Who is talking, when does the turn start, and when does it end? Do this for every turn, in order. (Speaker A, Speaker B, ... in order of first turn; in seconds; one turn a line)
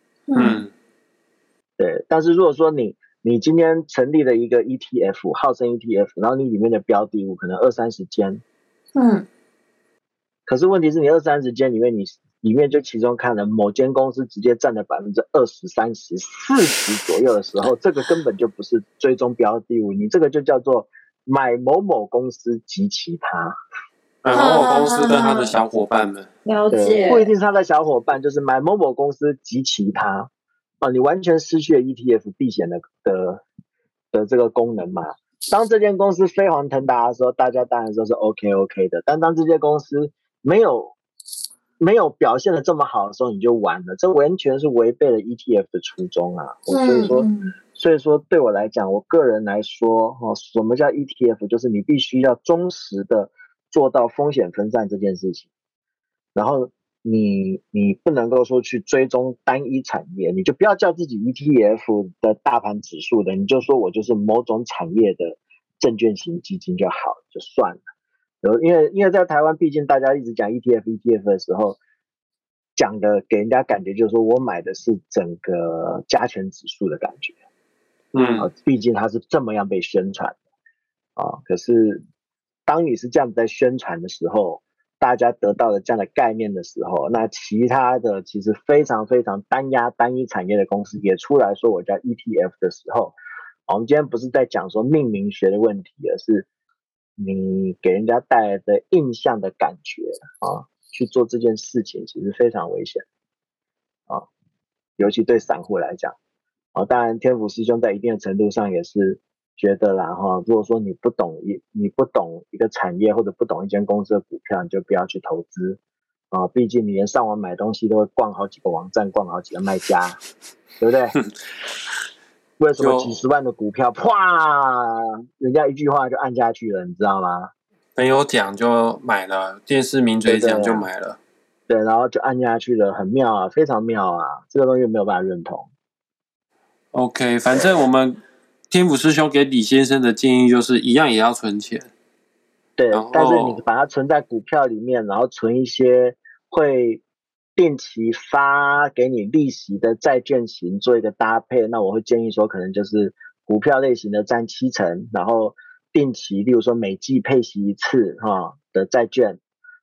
Speaker A: 0.3-0.6
Speaker B: 0.3-0.7
Speaker C: 1.8-8.4
Speaker A: 8.9-9.3
Speaker C: 10.5-23.6
Speaker B: 24.2-26.3
Speaker A: 24.3-25.6
Speaker A: 26.5-27.3
Speaker C: 26.7-30.3
Speaker C: 30.8-33.4
Speaker C: 34.1-41.0
Speaker C: 41.8-55.5
Speaker A: 46.7-47.5
Speaker C: 56.4-67.8
Speaker C: 68.4-71.8
Speaker C: 72.8-77.4
Speaker B: 78.1-78.5
Speaker C: 78.4-80.4
Speaker C: 81.2-82.0
Speaker C: 82.7-93.2
Speaker C: 93.7-96.5
Speaker C: 97.2-103.0
Speaker C: 105.0-106.2
Speaker C: 106.7-115.8
Speaker C: 116.3-120.2
Speaker C: 120.8-121.2
Speaker C: 122.6-127.5
Speaker B: 122.8-123.1
Speaker B: 128.0-131.2
Speaker C: 130.3-130.9
Speaker C: 131.7-135.7
Speaker B: 136.9-141.9
Speaker C: 142.8-147.0
Speaker B: 142.9-143.6
Speaker C: 147.6-159.4